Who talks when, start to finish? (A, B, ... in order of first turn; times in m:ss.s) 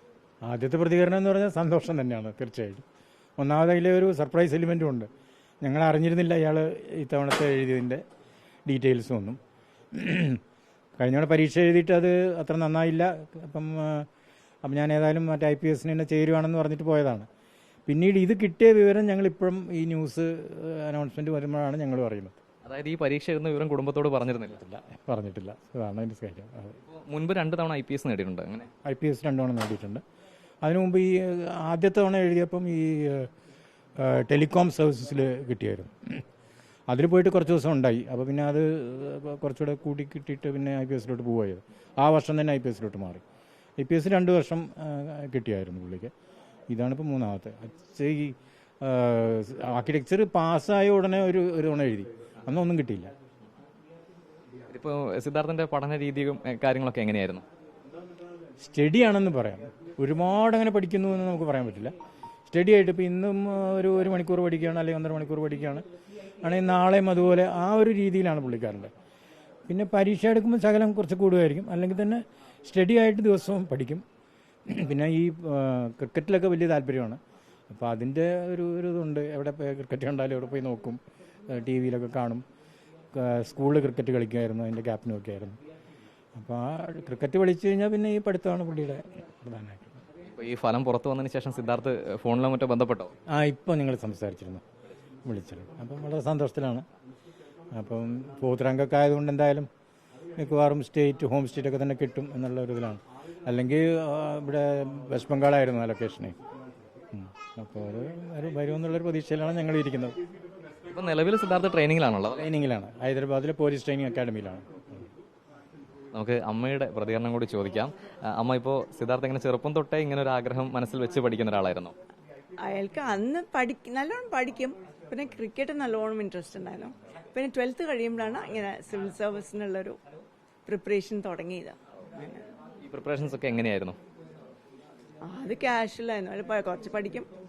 0:00.4-0:02.8 A
0:03.4-0:05.1 A
0:05.6-0:08.0 A
0:08.7-0:09.4 A
0:09.9-0:10.4 A
0:11.0-0:14.1 A
0:14.6-0:17.3 A
0:17.9-0:22.4 A
0:22.6-0:24.6 B
0:24.5-0:26.8 A
0:26.9-0:28.7 B
0:28.8-0:30.0 A
0:30.6-0:33.3 A
0:34.0-0:36.2 A
0:36.9-0:43.2 A
0:43.8-0:46.1 A
0:46.7-0:53.1 A
0:54.7-0:57.4 B
0:58.6-1:01.9 A
1:02.4-1:05.8 A
1:06.4-1:08.9 A
1:09.7-1:14.0 A
1:14.7-1:22.4 A
1:23.1-1:25.6 A
1:26.3-1:30.0 A
1:30.3-1:33.1 B
1:33.3-1:34.6 A
1:35.2-1:36.8 A
1:37.7-1:39.7 A
1:40.4-1:46.4 A
1:47.1-1:50.2 A
1:50.8-1:52.5 B
1:52.3-1:55.0 A
1:56.1-2:01.9 B
2:02.6-2:10.0 C
2:10.7-2:12.4 C
2:12.8-2:14.0 B
2:15.2-2:17.3 C